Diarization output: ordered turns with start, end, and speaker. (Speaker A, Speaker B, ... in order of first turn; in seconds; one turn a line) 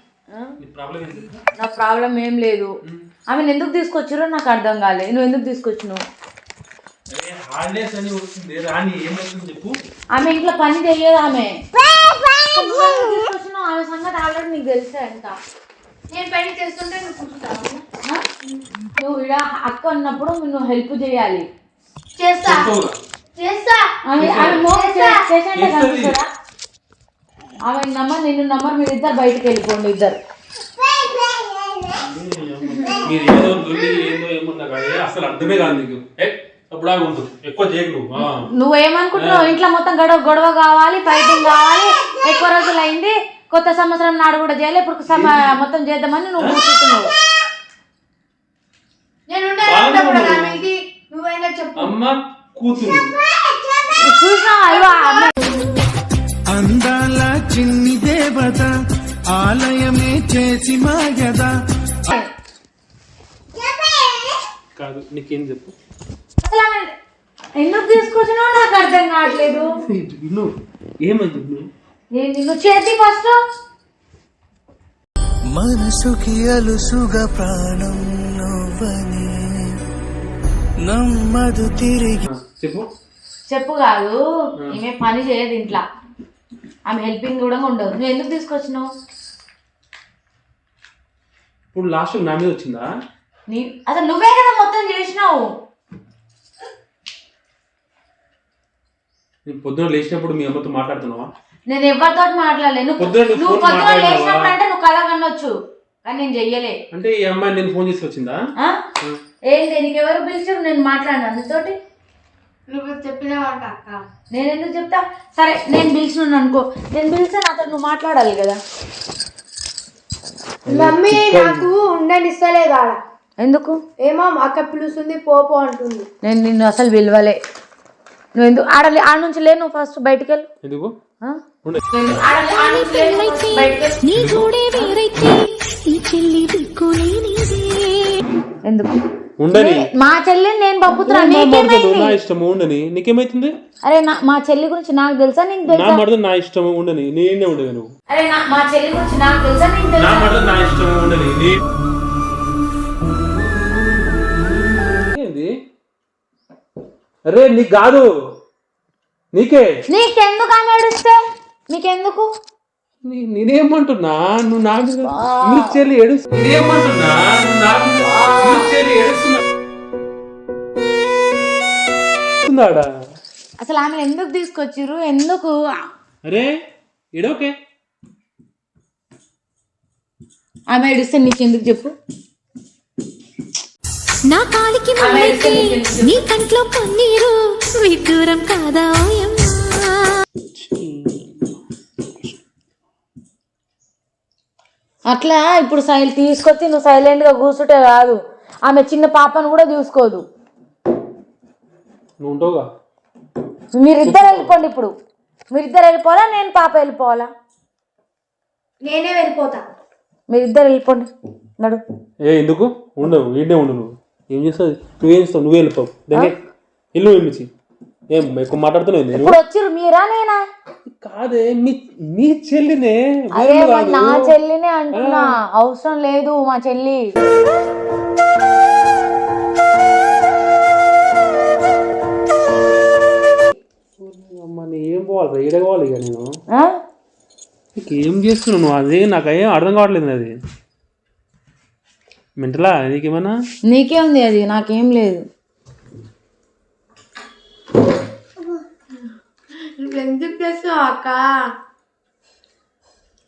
Speaker A: 0.6-1.4
Speaker B: 1.6-2.7
Speaker B: 3.3-6.0
Speaker A: 7.1-9.8
Speaker B: 10.1-11.6
Speaker B: 12.5-15.3
Speaker C: 16.1-17.8
Speaker B: 19.0-21.4
Speaker C: 22.1-22.7
Speaker A: 22.4-23.0
Speaker C: 23.4-23.9
Speaker B: 24.1-26.3
Speaker A: 24.1-24.7
Speaker C: 24.7-25.2
Speaker A: 25.5-26.2
Speaker B: 27.6-30.2
Speaker C: 31.1-31.9
Speaker A: 32.0-38.5
Speaker B: 38.2-47.1
Speaker A: 39.1-39.5
Speaker A: 45.1-45.5
Speaker C: 49.3-51.9
Speaker A: 49.6-50.6
Speaker A: 51.8-53.1
Speaker B: 54.0-55.3
Speaker D: 56.5-58.7
Speaker D: 59.3-61.5
Speaker A: 64.8-65.7
Speaker B: 66.4-66.9
Speaker B: 67.6-69.7
Speaker A: 69.8-70.5
Speaker A: 71.0-71.7
Speaker B: 72.1-73.4
Speaker E: 75.5-79.8
Speaker E: 80.8-82.3
Speaker A: 82.2-82.9
Speaker B: 83.5-85.8
Speaker B: 86.9-88.9
Speaker A: 91.7-92.9
Speaker B: 93.5-95.5
Speaker A: 99.5-101.3
Speaker B: 101.7-105.5
Speaker A: 103.0-104.5
Speaker B: 106.0-106.8
Speaker A: 106.9-108.4
Speaker B: 109.5-111.7
Speaker C: 112.7-114.0
Speaker B: 114.3-118.6
Speaker A: 120.7-121.7
Speaker C: 120.8-123.0
Speaker B: 123.4-123.8
Speaker C: 124.0-126.1
Speaker B: 126.2-127.4
Speaker B: 128.4-130.5
Speaker A: 130.6-130.9
Speaker A: 131.6-132.2
Speaker B: 131.9-134.0
Speaker F: 132.5-138.2
Speaker A: 134.1-134.5
Speaker B: 138.6-138.9
Speaker A: 139.4-139.9
Speaker B: 139.5-142.1
Speaker A: 141.0-143.5
Speaker B: 143.8-146.0
Speaker A: 145.7-147.9
Speaker B: 148.1-150.3
Speaker A: 150.0-151.6
Speaker A: 153.6-155.5
Speaker A: 157.3-158.1
Speaker A: 159.3-159.7
Speaker B: 159.9-161.2
Speaker B: 161.7-162.3
Speaker A: 163.0-169.4
Speaker B: 165.1-165.7
Speaker B: 168.0-168.8
Speaker A: 172.4-172.9
Speaker B: 173.6-175.6
Speaker A: 176.2-176.5
Speaker A: 177.1-177.5
Speaker B: 180.7-181.9
Speaker F: 184.3-190.1
Speaker B: 185.0-186.2
Speaker A: 190.5-191.4
Speaker B: 195.1-200.2
Speaker A: 202.2-202.7
Speaker B: 203.8-204.9
Speaker A: 204.0-204.5
Speaker B: 205.5-207.3
Speaker C: 208.8-209.6
Speaker B: 210.3-211.1
Speaker A: 212.2-216.3
Speaker A: 216.9-217.5
Speaker A: 218.1-219.4
Speaker B: 219.2-220.4
Speaker A: 220.9-224.3
Speaker B: 223.4-227.0
Speaker A: 224.9-225.3
Speaker A: 234.0-236.4
Speaker A: 237.8-240.3
Speaker A: 242.4-243.4
Speaker B: 243.7-245.2
Speaker C: 249.8-251.3